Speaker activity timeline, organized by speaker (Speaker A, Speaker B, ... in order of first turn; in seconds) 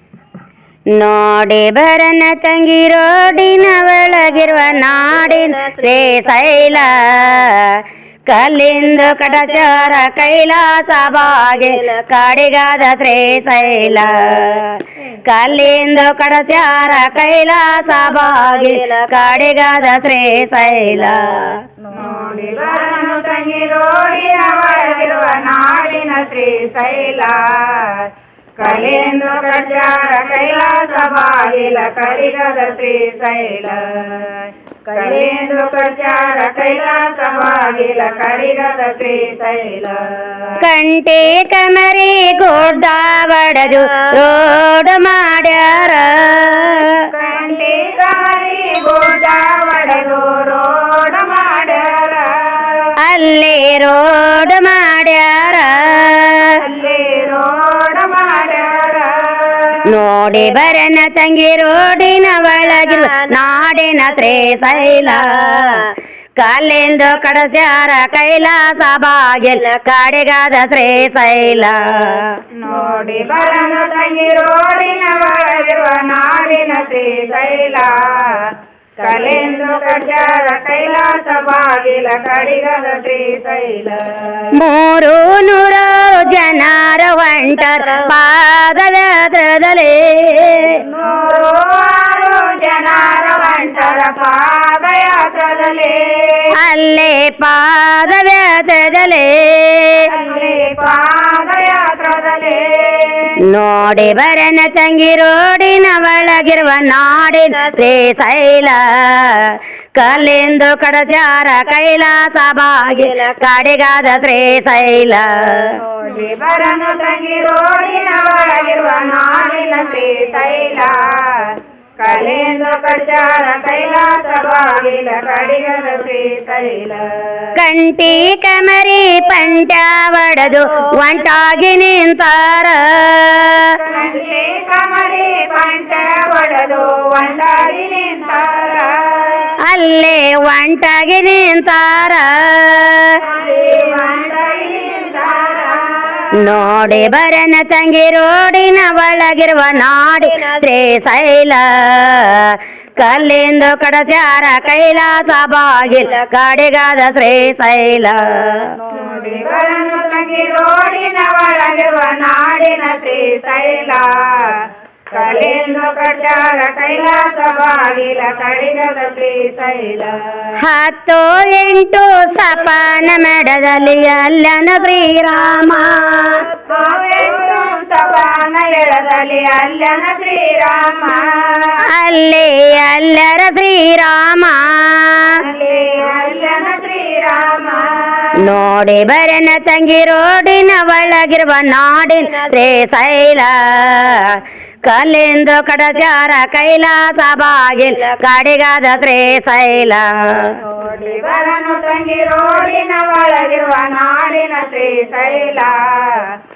Speaker A: 0.9-21.5, 40.6-47.0, 53.0-56.5, 59.9-72.3, 84.5-90.8, 96.6-100.1, 103.5-115.8, 127.6-133.7, 139.6-143.2, 146.4-158.8, 170.6-176.4, 181.9-185.4, 188.4-200.6
Speaker B: 21.9-28.1, 28.6-34.3, 34.9-40.6, 47.1-52.9, 56.6-59.8, 72.6-84.5, 90.8-96.5, 100.1-103.3, 116.0-127.5, 133.8-139.5, 143.2-146.3, 158.9-164.6, 165.1-170.5, 176.7-181.8, 185.4-188.3, 200.8-206.2